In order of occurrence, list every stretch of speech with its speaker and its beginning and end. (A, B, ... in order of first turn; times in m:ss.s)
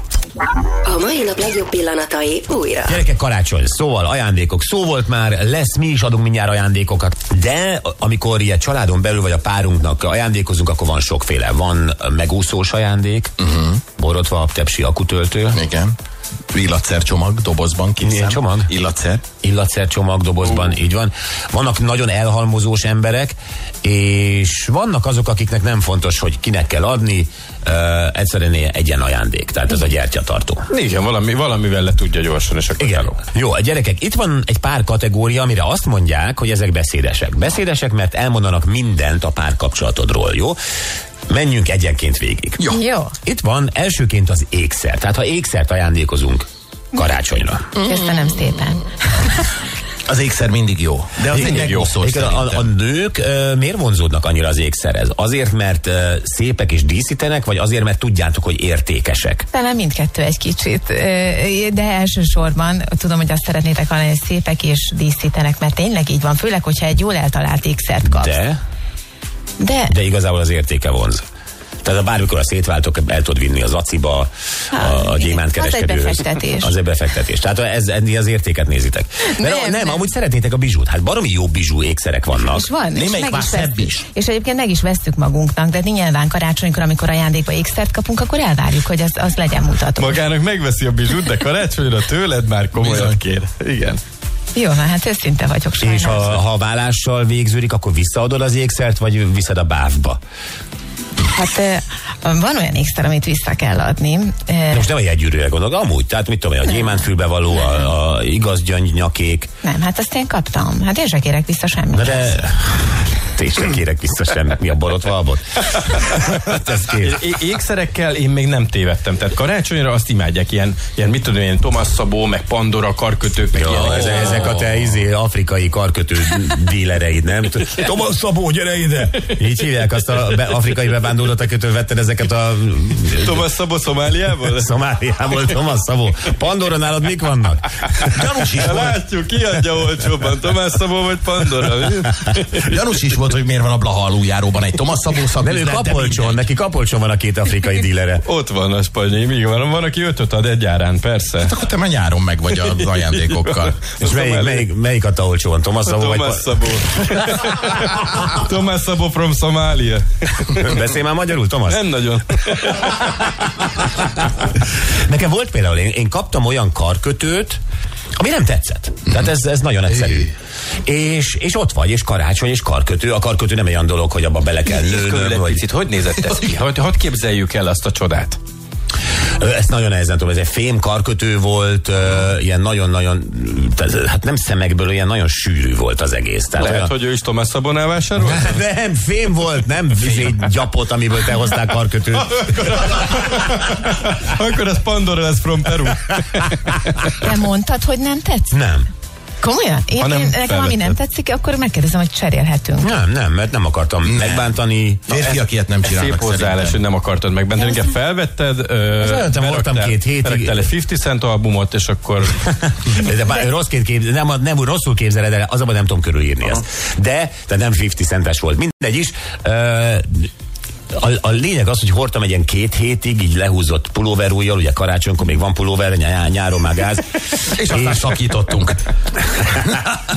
0:00.8-0:03.0 A
0:02.8-0:13.3 B
0:13.4-0:13.8 C
0:14.0-0:15.6 B
0:15.5-0:15.9 C
0:16.5-0:19.2 C
0:18.0-0:18.7 B
0:19.4-0:30.6 B
0:30.7-0:33.2 D
0:32.8-0:40.6 B
0:41.3-0:42.6 B
0:42.7-0:43.2 E
0:43.2-0:47.7 B
0:47.8-0:49.4 E
0:50.0-0:52.7 C
0:51.3-0:59.4 B
0:51.3-0:51.9 D
0:59.5-1:08.4 E
1:08.0-1:08.6 B
1:09.6-1:09.9 E
1:09.9-1:11.2 B
1:11.8-1:22.7 B
1:14.7-1:16.7 E
1:19.3-1:20.0 E
1:22.4-1:30.2 E
1:22.9-1:24.0 C
1:30.0-1:34.0 D
1:32.8-1:33.2 C
1:34.5-1:36.4 E
1:35.8-1:40.2 B
1:41.3-1:44.9 E
1:44.7-1:49.5 B
1:49.6-1:52.4 E
1:51.9-1:57.2 B
1:57.0-2:04.6 D
2:03.5-2:13.4 B
2:13.1-2:14.7 D
2:14.4-2:18.0 B
2:18.0-2:19.0 C
2:18.5-2:22.7 D
2:22.6-2:26.4 C
2:25.4-2:28.2 B
2:28.2-2:31.6 D
2:31.4-2:33.8 C
2:32.6-2:34.7 D
2:34.0-2:37.0 B
2:35.8-2:40.7 D
2:40.5-2:41.8 B
2:41.7-2:43.0 D
2:42.8-2:47.6 B
2:48.2-2:50.3 B
2:50.8-2:55.6 B
2:54.7-2:58.4 D
2:59.3-3:06.9 B
3:06.6-3:08.6 D
3:08.2-3:12.9 B
3:10.1-3:10.4 D
3:12.5-3:17.2 D
3:17.2-3:18.6 E
3:18.5-3:18.9 B
3:19.4-3:22.9 E
3:20.0-3:20.9 D
3:22.8-3:25.1 B
3:24.0-3:24.4 C
3:25.1-3:26.8 C
3:25.1-3:32.4 D
3:29.0-3:30.6 B
3:32.4-3:40.3 B
3:40.9-3:48.1 B
3:47.4-3:48.9 C